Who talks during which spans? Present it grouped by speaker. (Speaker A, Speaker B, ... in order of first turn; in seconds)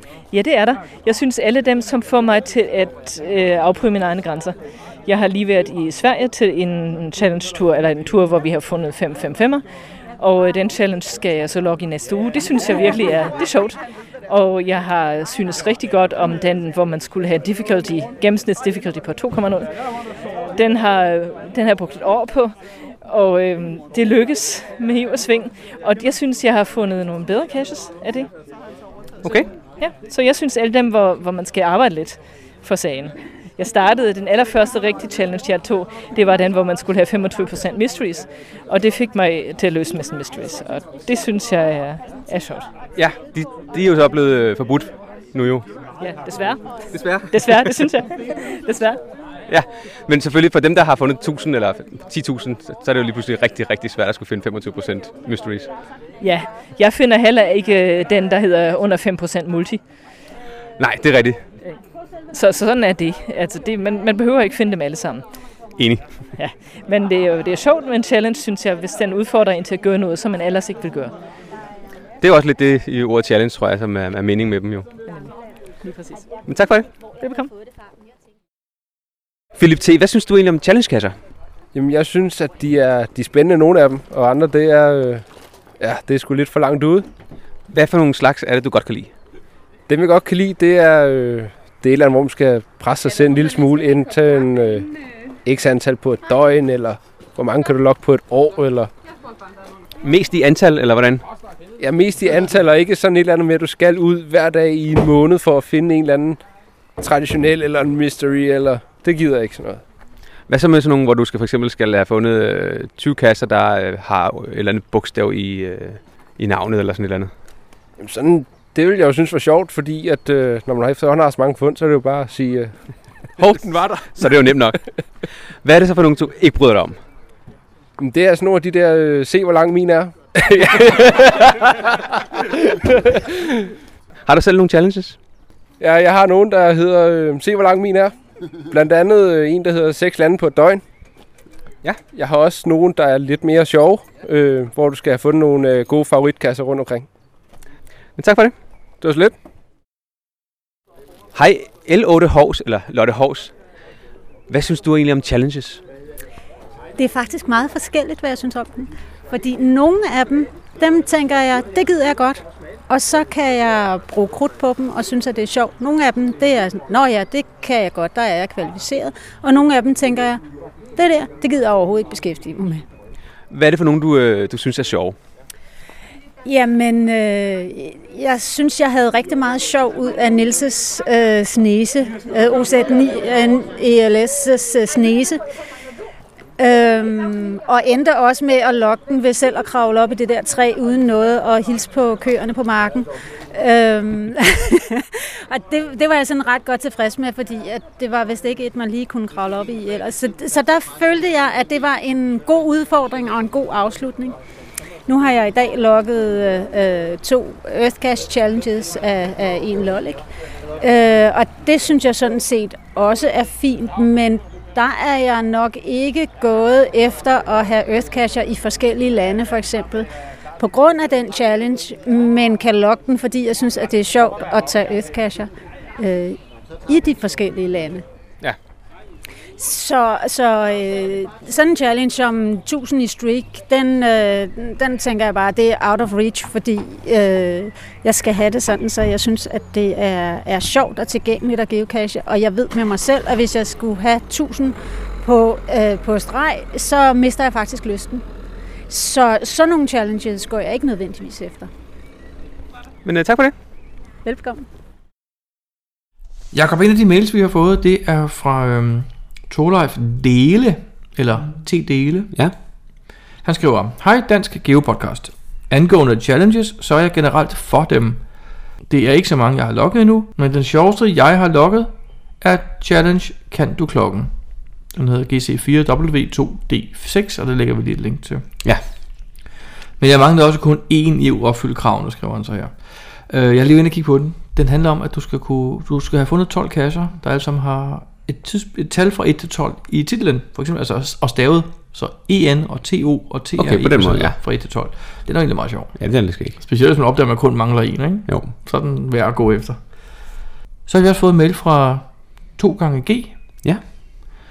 Speaker A: 0.3-9.6, 10.2-19.7, 20.6-28.3, 29.8-42.7, 46.0-46.6, 47.3-49.0, 56.2-59.8, 62.3-65.2, 66.4-71.2, 75.1-76.3, 77.2-77.5
Speaker B: 29.2-29.5, 43.0-45.7, 46.9-47.8, 49.5-55.7, 60.8-61.4, 65.8-66.0, 72.2-74.9, 76.5-76.9, 79.6-81.2, 87.7-89.1, 100.0-101.2, 110.5-117.3, 123.4-124.8, 125.6-127.0, 130.6-131.0, 134.3-135.2, 148.2-148.5, 151.3-153.5, 154.5-155.8, 173.5-175.2, 253.0-253.5, 293.6-294.4, 296.0-296.6, 298.3-298.5
Speaker C: 81.7-85.2, 85.8-87.1, 89.9-94.9, 95.5-98.9, 101.8-106.4, 107.0-109.8, 118.0-122.7, 128.0-131.6, 132.7-133.3, 135.8-138.1, 138.7-140.8, 142.1-147.1, 149.0-149.3
Speaker D: 157.0-170.4, 171.0-172.8, 176.4-185.4, 186.6-204.3, 205.1-210.2, 210.8-220.1, 220.6-228.1, 229.6-248.2, 248.9-251.7, 254.2-254.6
Speaker E: 256.5-262.3, 263.4-268.2, 268.9-274.3, 274.9-278.4, 280.0-282.8, 283.3-296.0, 296.6-299.8, 300.9-303.4